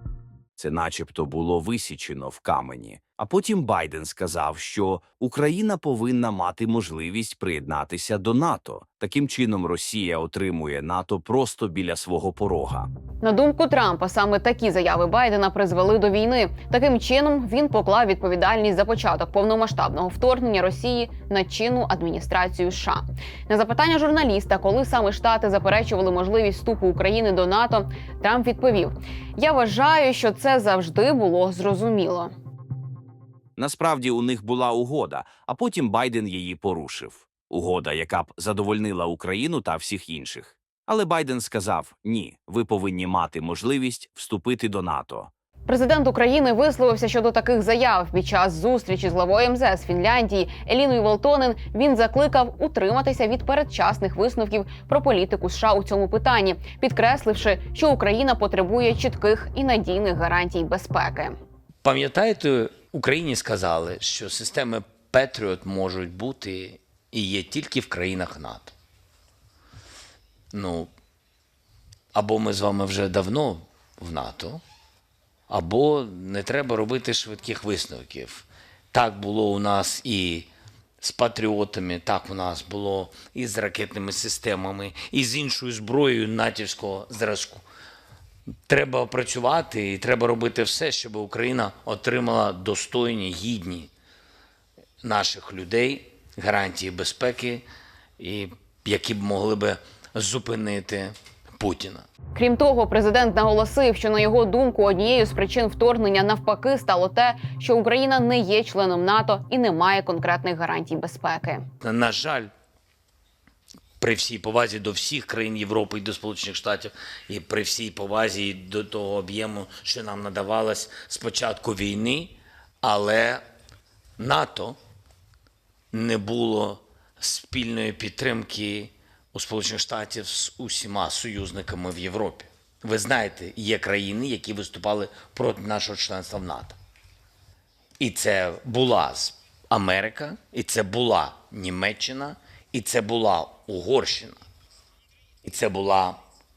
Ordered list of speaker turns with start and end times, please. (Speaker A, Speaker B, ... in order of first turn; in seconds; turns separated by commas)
Speaker A: 0.6-12.9, Speaker B: 13.2-32.3, Speaker A: 33.6-45.3, Speaker B: 45.7-61.4, Speaker C: 61.8-68.7, Speaker C: 70.5-70.9, Speaker C: 72.1-74.6, Speaker C: 75.5-80.5, Speaker C: 81.0-87.6, Speaker C: 88.7-93.9, Speaker C: 95.0-97.6, Speaker C: 98.2-102.0, Speaker B: 102.3-111.6, Speaker C: 111.8-112.5, Speaker C: 114.0-123.4, Speaker C: 124.2-124.8, Speaker C: 125.9-136.8, Speaker C: 138.0-144.4, Speaker C: 145.4-146.2